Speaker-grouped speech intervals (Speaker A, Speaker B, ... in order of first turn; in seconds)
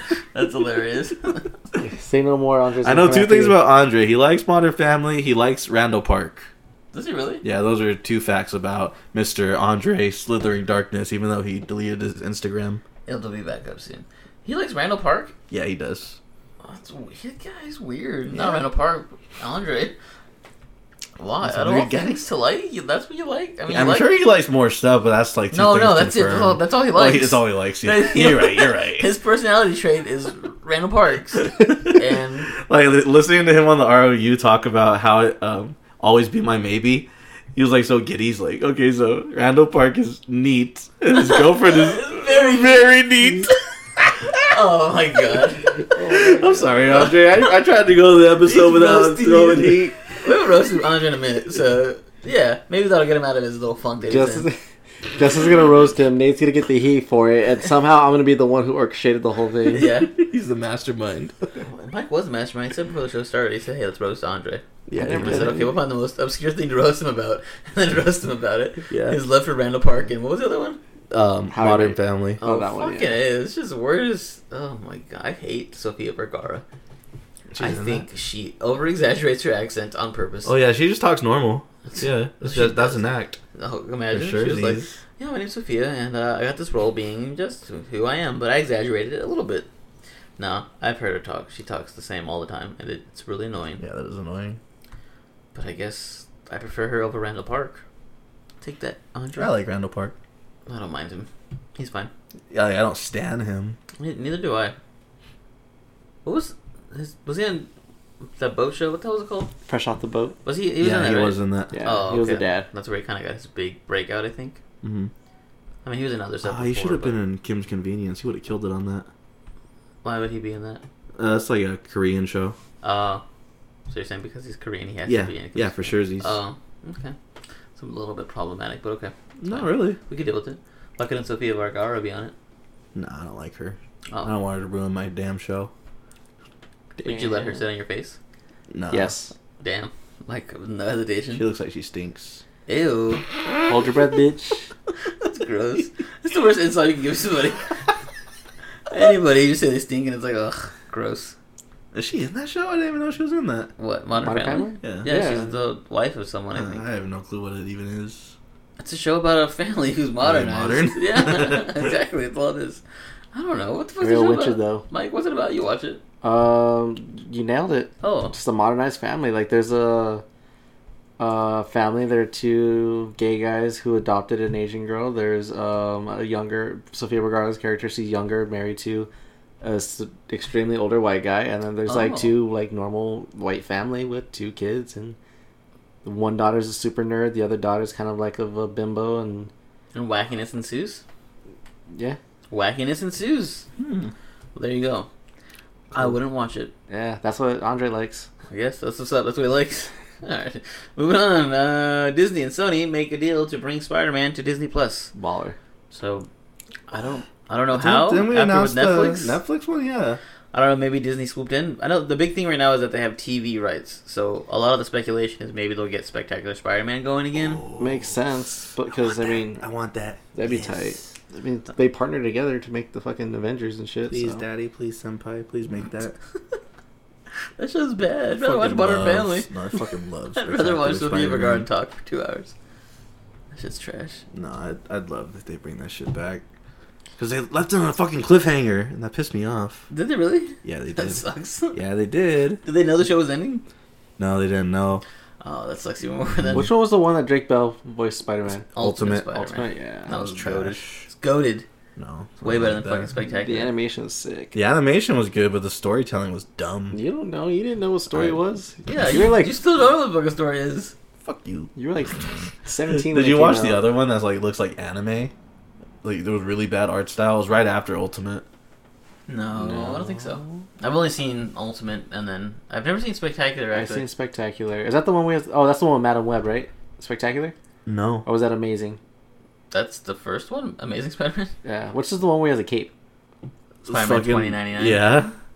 Speaker A: 0.3-1.5, 6.9-7.4, 13.1-15.3, 16.6-19.9, 21.2-24.1, 25.5-32.5, 41.1-42.9, 44.5-45.9, 46.9-47.4, 48.4-54.5, 59.7-60.1, 61.6-70.8, 72.4-76.6, 77.6-80.5, 81.9-89.7, 90.4-93.8, 95.5-97.8, 98.6-99.5, 100.7-102.1, 104.0-104.8, 106.2-107.7, 108.3-109.5, 110.4-114.6, 115.8-117.2, 120.0-120.8, 122.8-123.2, 123.9-127.2, 127.8-132.3, 137.0-138.2, 139.6-141.4, 142.7-143.2, 145.2-147.8, 148.9-151.3, 153.8-156.8, 158.8-162.8, 163.3-166.0, 168.0-168.3, 181.9-182.3, 189.9-191.0, 192.5-193.7, 194.5-195.1, 195.9-196.7, 198.5-205.1, 205.9-206.3, 206.9-209.4, 210.5-217.6, 227.6-229.5, 230.3-232.5, 233.5-234.2, 239.9-241.8, 242.6-243.6, 245.4-246.7, 248.7-251.7, 252.4-253.7, 258.9-260.9, 269.3-274.1, 279.7-281.5, 283.9-285.0
Speaker B: 1.8-3.6, 45.9-46.9, 54.1-54.6, 55.1-59.9, 65.0-65.7, 71.5-73.2, 109.7-110.3, 111.7-112.7, 137.0-137.6, 138.9-139.3, 143.7-144.7, 154.2-155.5, 164.0-164.8, 166.2-170.2, 171.2-179.1, 179.6-185.2, 186.0-189.5, 191.9-192.2, 196.9-198.3, 205.1-205.6, 217.8-219.6, 220.3-224.4, 246.5-248.7, 249.3-250.1, 253.4-254.6, 256.9-259.6, 261.8-263.9, 273.7-277.5, 278.2-279.0, 281.6-282.9
Speaker C: 2.8-6.5, 7.4-12.8, 15.5-16.2, 18.3-18.6, 21.4-22.2, 23.7-29.1, 31.4-32.0, 32.6-44.5, 46.0-50.0, 59.9-61.3, 64.9-65.6, 68.9-69.2, 71.1-72.4, 77.5-78.0, 80.4-83.4, 84.1-84.9, 93.8-94.6, 99.4-100.1, 102.5-103.8, 110.8-111.8, 114.8-115.1, 116.4-119.1, 121.2-122.5, 125.0-126.4, 129.4-130.0, 132.9-135.7, 138.7-139.2, 141.3-142.4, 151.9-153.7, 154.8-155.4, 156.5-158.3, 160.2-161.8, 193.8-194.1, 207.7-210.2, 217.3-218.2, 219.1-221.0, 224.1-226.2, 228.3-231.7, 234.3-236.4, 237.2-239.9, 240.6-242.6, 244.2-245.0, 246.4-246.7, 248.8-249.4, 250.1-251.1, 252.0-253.1, 254.5-257.0, 258.1-258.4, 261.2-261.7, 262.9-265.3, 266.0-268.4, 269.6-270.6, 277.9-278.3, 283.8-285.3